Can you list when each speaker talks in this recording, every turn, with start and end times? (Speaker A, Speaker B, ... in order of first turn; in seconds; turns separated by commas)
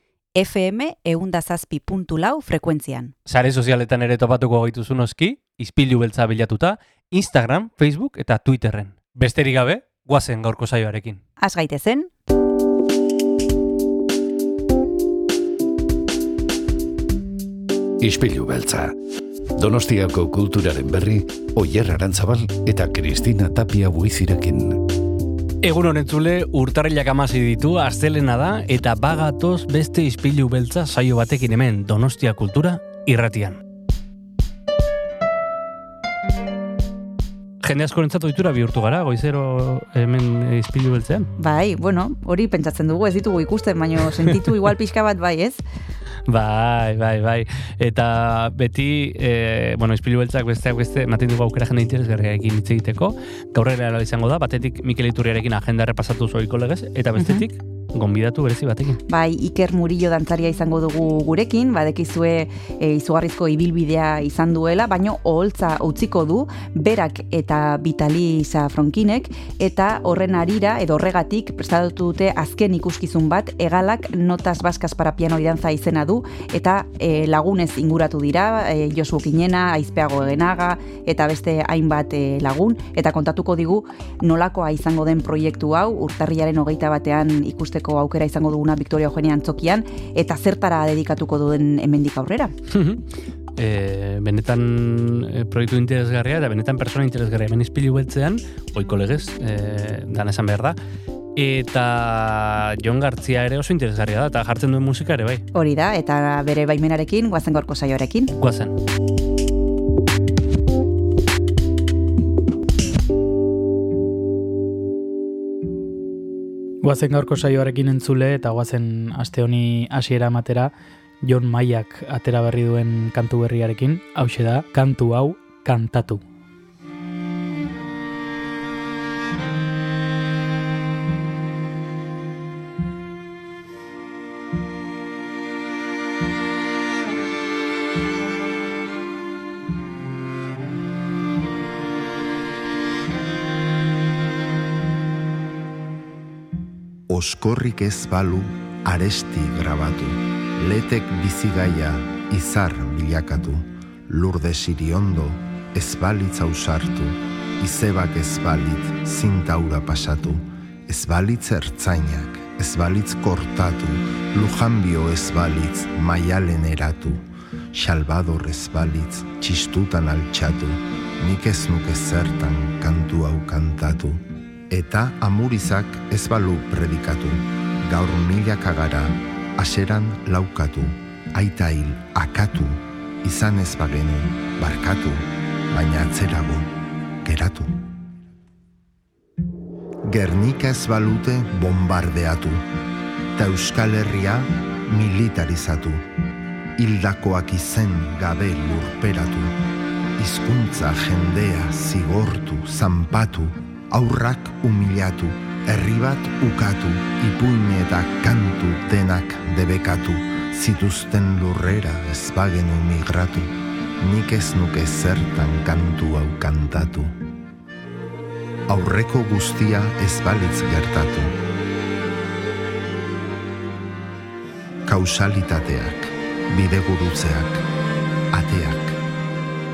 Speaker A: 0.3-3.1, Speaker B: 3.2-11.2, Speaker A: 11.4-12.1, Speaker C: 18.0-18.9, Speaker C: 19.6-24.8, Speaker B: 25.6-33.6, Speaker B: 37.6-41.3, Speaker A: 41.4-45.6, Speaker B: 46.3-59.0, Speaker A: 57.2-57.4, Speaker A: 59.1-92.5, Speaker B: 92.7-93.0, Speaker B: 93.6-100.8, Speaker B: 101.3-105.4, Speaker A: 105.5-108.3, Speaker B: 108.4-108.8, Speaker D: 116.8-126.2, Speaker E: 147.1-186.7, Speaker E: 187.2-187.8, Speaker E: 190.1-192.6, Speaker E: 193.3-196.0, Speaker E: 196.8-199.6, Speaker E: 200.2-217.1, Speaker E: 218.7-221.3, Speaker E: 224.8-227.6, Speaker E: 228.3-229.0